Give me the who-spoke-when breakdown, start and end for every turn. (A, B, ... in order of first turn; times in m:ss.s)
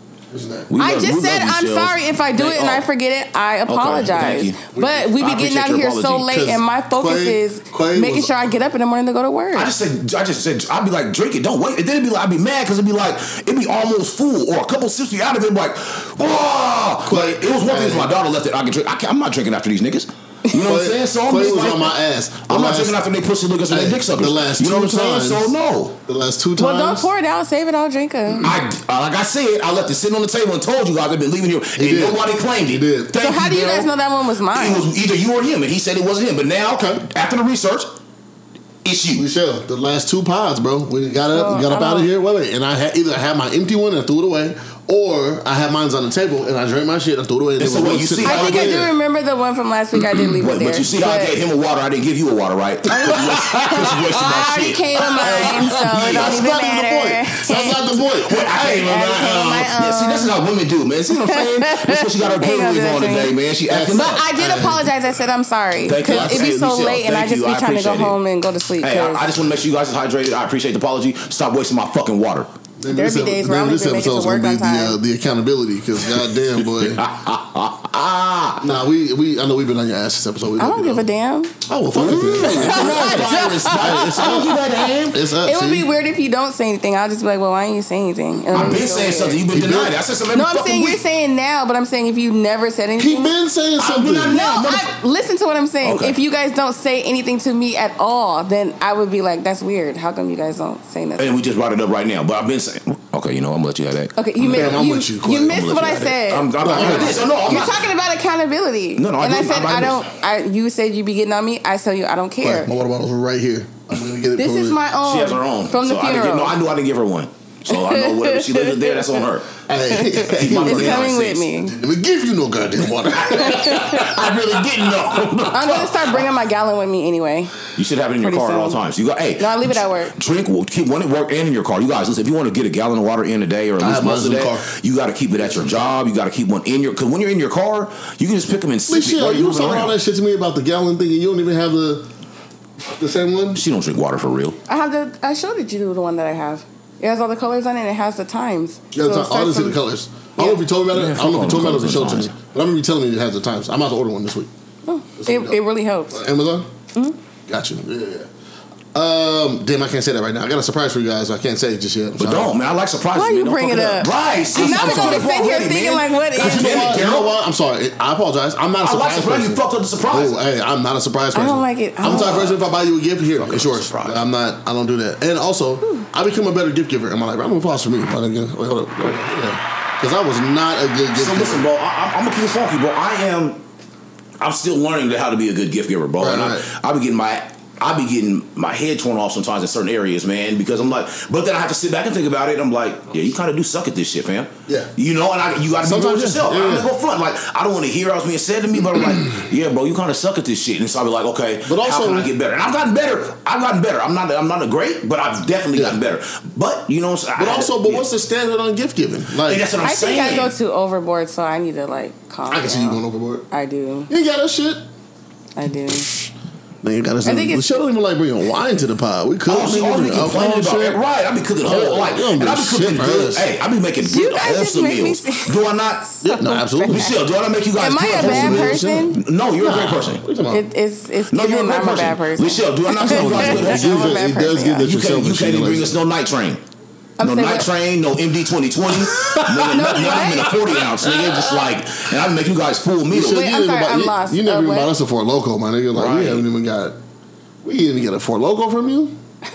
0:00.3-0:00.7 A
0:00.7-0:02.9 B
0:00.8-0:09.7 C
0:03.7-0:06.4 B
0:04.7-0:05.1 A
0:06.3-0:08.3 A
0:09.5-0:22.0 B
0:17.0-0:18.2 A
0:20.6-0:23.0 A
0:22.5-0:26.0 B
0:23.7-0:27.1 A
0:26.6-0:28.6 C
0:28.4-0:33.9 B
0:31.8-0:33.1 A
0:33.2-0:34.9 C
0:34.5-0:37.9 B
0:36.7-0:37.0 A
0:38.8-0:39.2 B
0:39.1-0:48.9 A
0:41.3-0:42.1 C
0:47.6-0:48.9 B
0:48.2-0:51.4 C
0:50.0-0:56.4 B
0:52.9-0:57.8 C
0:55.6-0:58.4 A
0:58.2-1:04.3 B
0:58.5-1:00.4 C
1:01.1-1:09.3 C
1:03.7-1:04.9 A
1:05.8-1:08.2 B
1:06.0-1:06.6 A
1:08.8-1:12.5 B
1:12.8-1:17.1 A
1:12.9-1:15.0 C
1:16.7-1:18.6 B
1:18.6-1:21.0 A
1:20.6-1:21.5 C
1:21.6-1:25.9 A
1:21.9-1:25.2 B
1:22.2-1:24.6 C
1:25.4-1:29.5 C
1:28.5-1:31.0 B
1:29.5-1:30.0 A
1:30.2-1:33.3 C
1:33.0-1:34.4 A
1:33.8-1:34.9 B
1:34.3-1:41.4 C
1:35.8-1:36.2 B
1:41.2-1:44.7 B
1:44.2-1:52.7 C
1:44.4-1:46.1 A
1:45.5-1:47.8 B
1:46.6-1:47.5 A
1:49.0-1:50.1 B
1:52.4-1:54.8 A
1:54.4-1:56.6 C
1:55.0-1:59.5 B
1:57.7-1:59.2 C
1:59.7-2:04.0 A
2:00.1-2:01.8 C
2:00.2-2:01.5 B
2:03.2-2:06.2 B
2:03.4-2:04.1 C
2:05.5-2:07.5 C
2:07.8-2:20.0 B
2:08.2-2:08.8 C
2:09.4-2:10.1 C
2:13.8-2:14.6 A
2:15.4-2:15.9 A
2:18.9-2:22.1 A
2:22.8-2:23.6 A
2:23.5-2:24.6 B
2:24.7-2:29.8 C
2:28.9-2:34.5 A
2:30.4-2:32.3 B
2:34.9-2:36.2 C
2:35.2-2:36.7 A
2:37.5-2:38.3 A
2:38.9-2:42.5 A
2:42.2-2:47.3 B
2:43.1-2:46.9 C
2:44.5-2:45.3 A
2:46.3-3:01.7 A
2:48.8-2:50.4 B
2:51.3-2:52.5 C
2:52.1-2:52.4 B
2:53.3-2:54.2 B
3:01.2-3:03.6 B
3:04.4-3:28.0 B
3:06.2-3:06.7 A
3:15.8-3:16.9 A
3:21.6-3:22.3 A
3:25.7-3:26.0 A
3:27.4-3:29.6 A
3:29.4-3:30.5 B
3:29.8-3:34.1 C
3:32.5-3:33.4 A
3:34.1-3:34.8 A
3:35.6-3:36.1 C
3:36.8-3:41.0 A
3:37.2-3:37.8 C
3:39.5-3:46.1 B
3:41.6-3:43.5 A
3:44.0-3:47.2 C
3:46.2-3:47.1 A
3:46.8-3:50.2 B
3:47.7-3:49.2 C
3:48.2-3:50.7 A
3:50.5-3:54.9 C
3:51.3-3:54.1 B
3:53.0-3:56.0 A
3:54.8-3:56.6 B
3:57.2-3:57.7 C
3:57.2-4:03.4 B
3:59.6-4:00.6 C
4:03.1-4:07.0 A
4:03.2-4:04.9 C
4:05.9-4:06.4 B
4:07.6-4:09.1 A